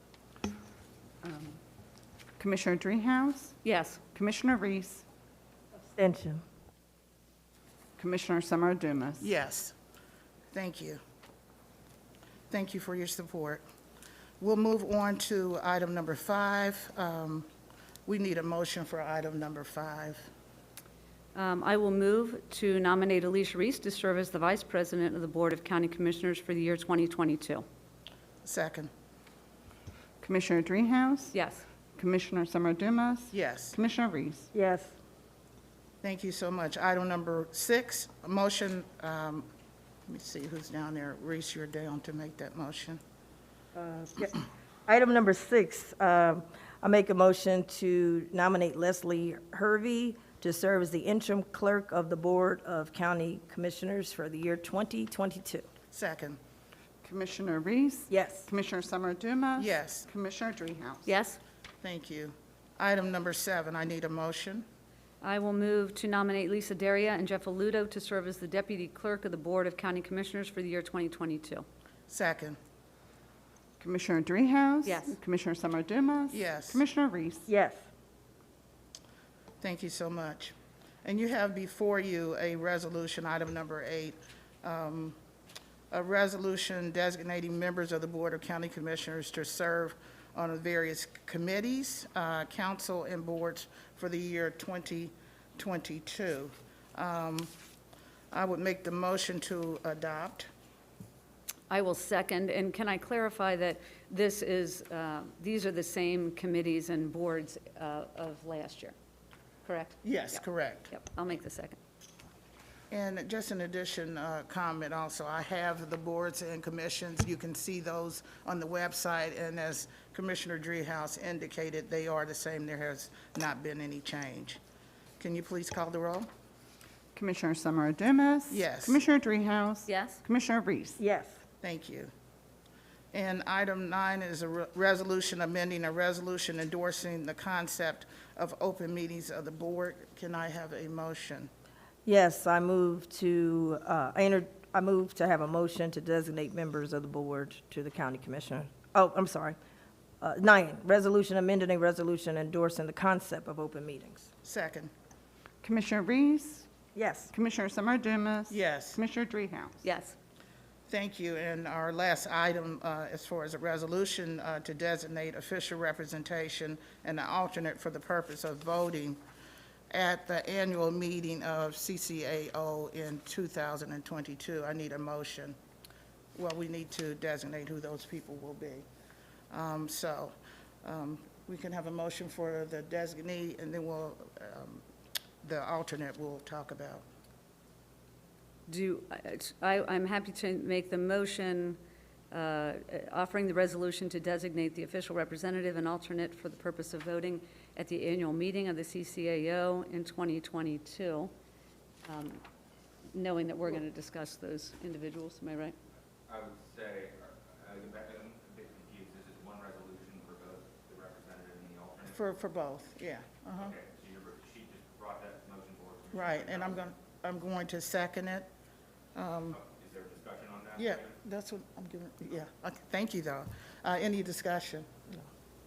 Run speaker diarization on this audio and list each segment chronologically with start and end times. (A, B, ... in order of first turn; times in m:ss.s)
0:01.2-0:01.6 A
0:02.4-0:05.0 B
0:03.6-0:04.0 A
0:06.0-0:06.4 C
0:08.0-0:09.3 B
0:09.2-0:09.7 D
0:10.5-0:11.0 D
0:12.5-0:13.6 D
0:14.4-0:17.5 D
0:18.1-0:20.3 D
0:21.4-0:27.6 A
0:28.4-0:28.9 D
0:30.2-0:31.4 B
0:31.3-0:31.6 A
0:32.0-0:34.5 B
0:33.3-0:33.8 D
0:34.5-0:34.9 C
0:36.0-0:39.5 D
0:40.1-0:43.0 D
0:43.8-0:55.7 C
0:55.9-0:56.4 D
0:57.0-1:01.1 B
0:58.1-0:58.5 C
0:59.6-1:00.1 D
1:01.1-1:01.4 A
1:01.8-1:04.6 D
1:05.2-1:11.6 A
1:12.1-1:12.6 D
1:13.8-1:17.5 B
1:14.8-1:15.2 A
1:16.3-1:16.8 D
1:17.5-1:17.8 C
1:19.6-1:25.2 D
1:25.9-1:37.5 D
1:38.3-1:40.5 D
1:41.7-1:49.0 A
1:49.6-1:51.8 A
1:50.0-1:50.9 D
1:52.9-2:04.6 D
2:05.2-2:06.3 D
2:07.2-2:11.0 B
2:08.5-2:09.0 D
2:09.9-2:10.2 A
2:11.0-2:11.4 C
2:11.6-2:12.1 D
2:13.1-2:21.5 D
2:22.0-2:29.6 C
2:30.2-2:34.3 C
2:34.4-2:34.9 D
2:35.6-2:36.7 B
2:37.0-2:37.3 C
2:37.3-2:39.8 B
2:38.5-2:39.0 D
2:39.8-2:40.2 A
2:40.9-2:49.2 D
2:49.9-2:55.6 D
2:56.4-2:58.9 D
2:59.5-3:04.8 D
3:05.4-3:07.0 D
3:08.7-3:11.8 A
3:12.3-3:21.3 A
3:22.0-3:22.4 A
3:23.1-3:25.8 A
3:26.3-3:32.2 E
3:32.1-3:33.7 D
3:33.5-3:36.9 E
3:36.1-3:38.5 D
3:39.2-3:39.6 D
3:39.5-3:41.2 E
3:40.8-3:45.2 D